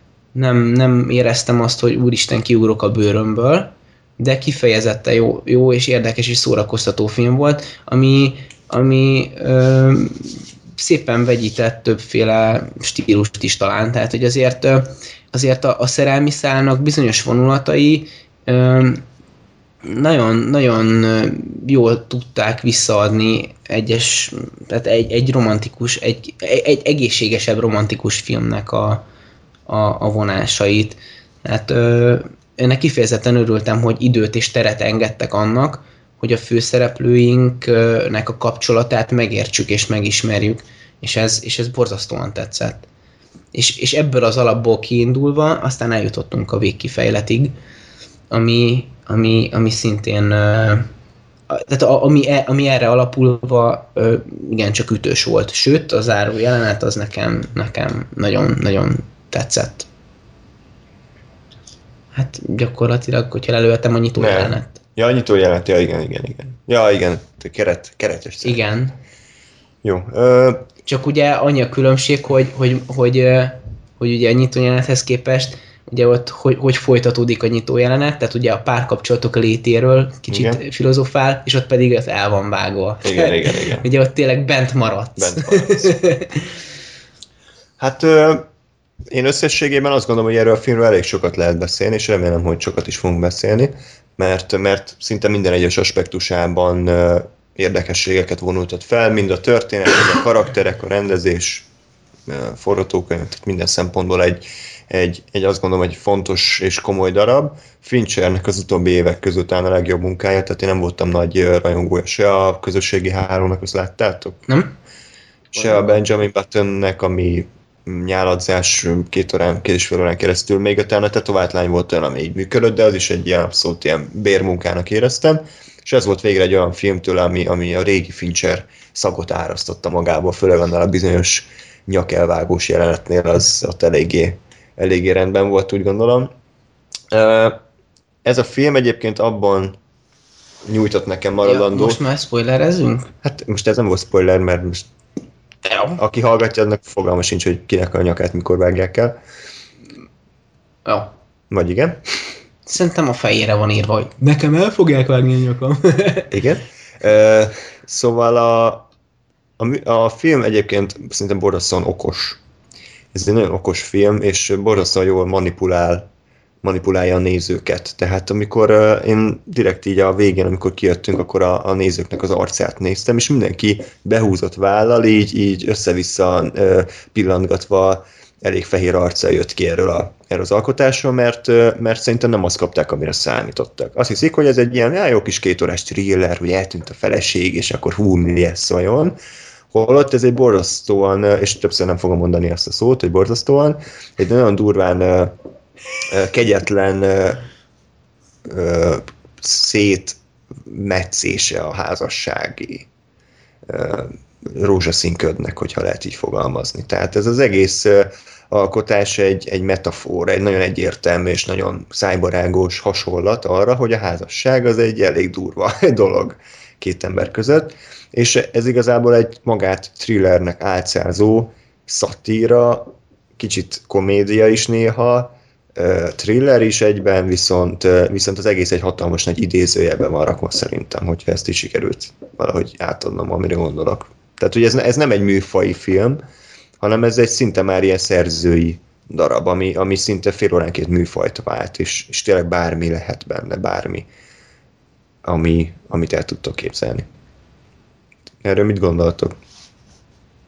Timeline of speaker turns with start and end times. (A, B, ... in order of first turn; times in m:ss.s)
0:00.3-0:19.0 A
0:19.8-0:29.0 A
0:29.7-0:42.8 A
0:43.5-0:47.5 A
0:48.3-0:50.9 A
0:51.5-0:59.9 A
1:02.1-1:04.8 A
1:04.2-1:08.6 B
1:08.4-1:09.0 A
1:09.8-1:10.6 B
1:10.8-1:26.5 A
1:20.3-1:20.6 B
1:23.0-1:23.8 B
1:25.2-1:25.9 B
1:27.8-1:28.5 B
1:29.1-1:41.7 B
1:42.3-1:54.4 B
1:54.5-1:54.7 A
1:55.5-2:16.3 B
2:17.1-2:17.6 B
2:18.2-2:19.8 B
2:20.6-2:22.0 B
2:21.4-2:23.1 A
2:23.2-2:24.9 B
2:25.6-2:26.0 A
2:26.0-2:29.2 B
2:30.8-2:31.1 A
2:31.5-2:32.2 B
2:32.7-2:36.3 A
2:36.3-2:38.8 B
2:39.6-2:42.4 B
2:43.1-2:46.1 B
2:46.6-3:09.1 B
3:09.7-3:15.4 B
3:16.1-3:17.4 B
3:18.4-3:22.9 B
3:23.7-3:56.2 B
3:56.8-4:04.1 B
4:05.2-4:07.1 B
4:08.4-4:09.4 B